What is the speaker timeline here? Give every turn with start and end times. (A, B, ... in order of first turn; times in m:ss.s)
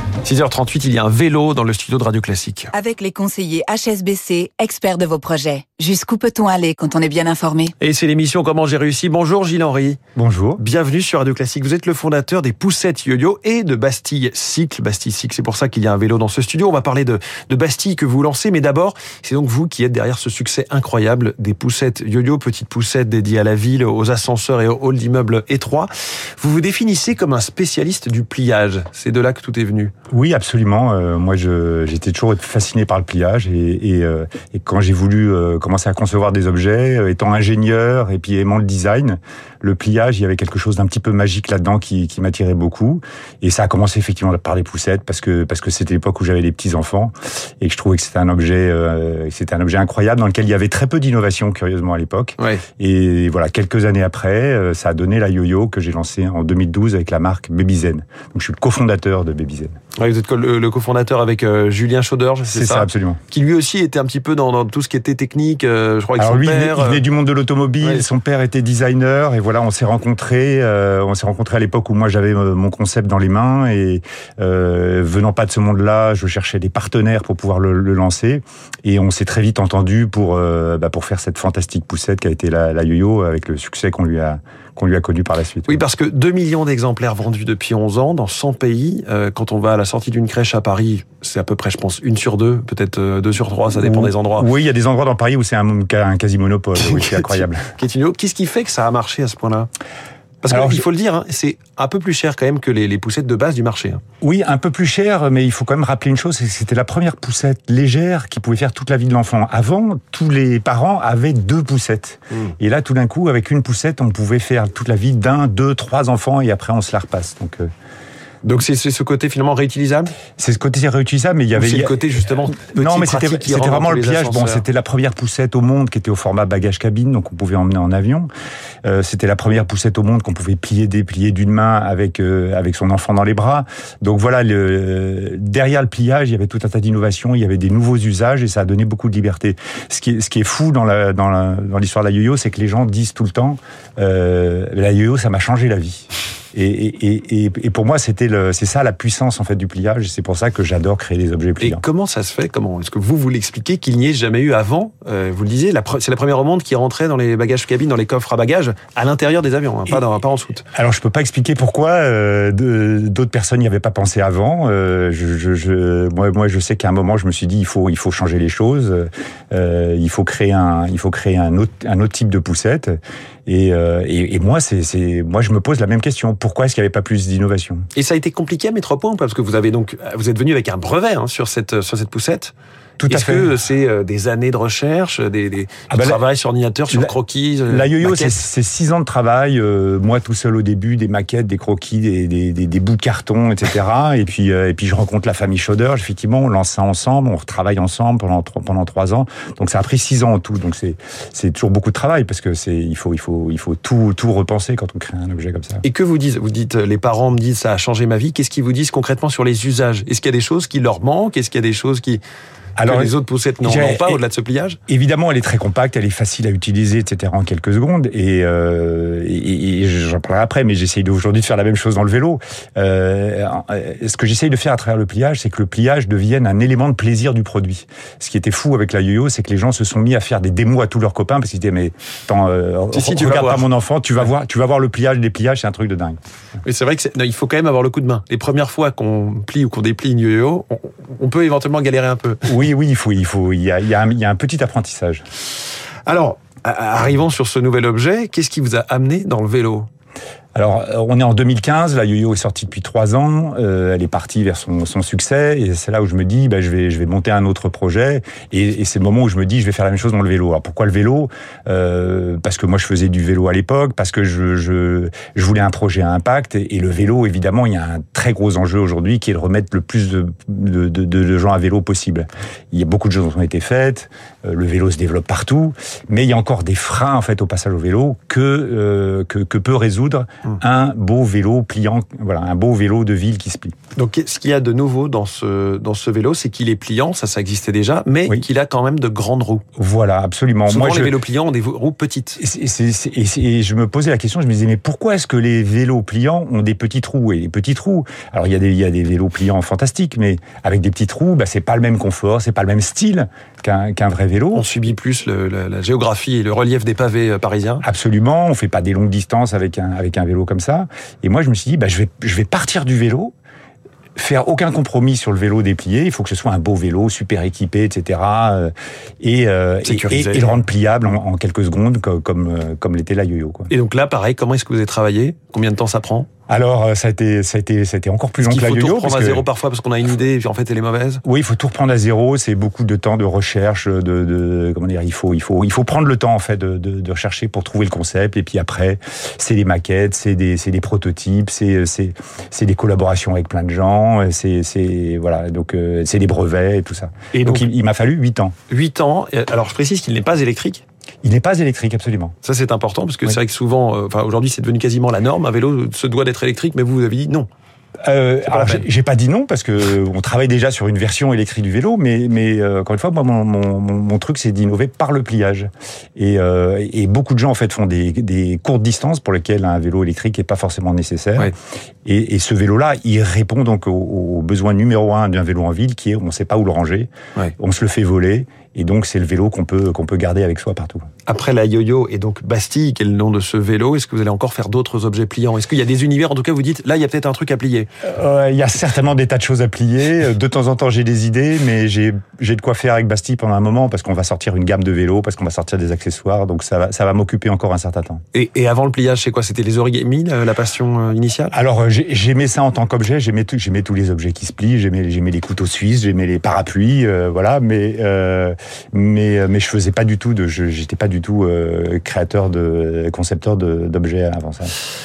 0:00.2-0:02.7 A
0:02.7-0:07.7 B
0:07.8-0:10.0 A
0:10.1-0:10.6 C
0:10.6-0:29.9 A
0:30.1-0:59.7 C
1:00.0-1:07.0 A
1:02.5-1:03.2 C
1:06.2-1:25.8 C
1:25.6-1:34.5 A
1:33.7-1:37.7 C
1:36.8-1:39.7 A
1:40.4-1:44.0 A
1:40.5-1:40.8 C
1:44.2-1:57.7 C
1:58.4-2:00.2 A
2:00.4-2:02.0 C
2:01.5-2:04.6 A
2:02.6-2:08.3 C
2:08.8-2:31.8 C
2:31.6-2:40.6 A
2:40.7-2:57.8 C
2:57.9-3:02.5 A
3:03.0-3:03.5 C
3:03.1-3:08.4 A
3:05.9-3:06.2 C
3:07.7-3:25.8 C
3:25.8-3:32.2 A
3:32.8-3:34.2 C
3:32.8-3:34.8 A
3:34.9-3:56.2 C
3:52.9-3:53.7 A
3:56.6-4:02.5 A
4:02.4-4:05.2 C
4:06.0-4:09.9 A
4:10.5-4:43.7 C
4:44.0-4:49.6 A
4:49.8-4:51.2 C
4:50.7-4:52.4 A
4:52.4-5:04.7 C
5:04.5-5:07.8 A
5:07.8-5:13.3 C
5:14.2-5:23.7 C
5:19.8-5:20.6 A
5:23.7-5:26.3 A
5:26.5-5:29.4 C
5:28.4-5:31.2 A
5:31.2-5:48.5 C
5:47.3-5:47.7 A
5:48.7-5:50.8 A
5:51.2-5:52.3 C
5:52.4-5:57.5 A
5:58.0-6:11.5 C
5:58.4-5:58.9 A
6:12.0-6:21.0 C
6:21.2-6:27.9 A
6:28.0-6:38.2 C
6:38.3-6:41.6 A
6:41.5-6:54.7 C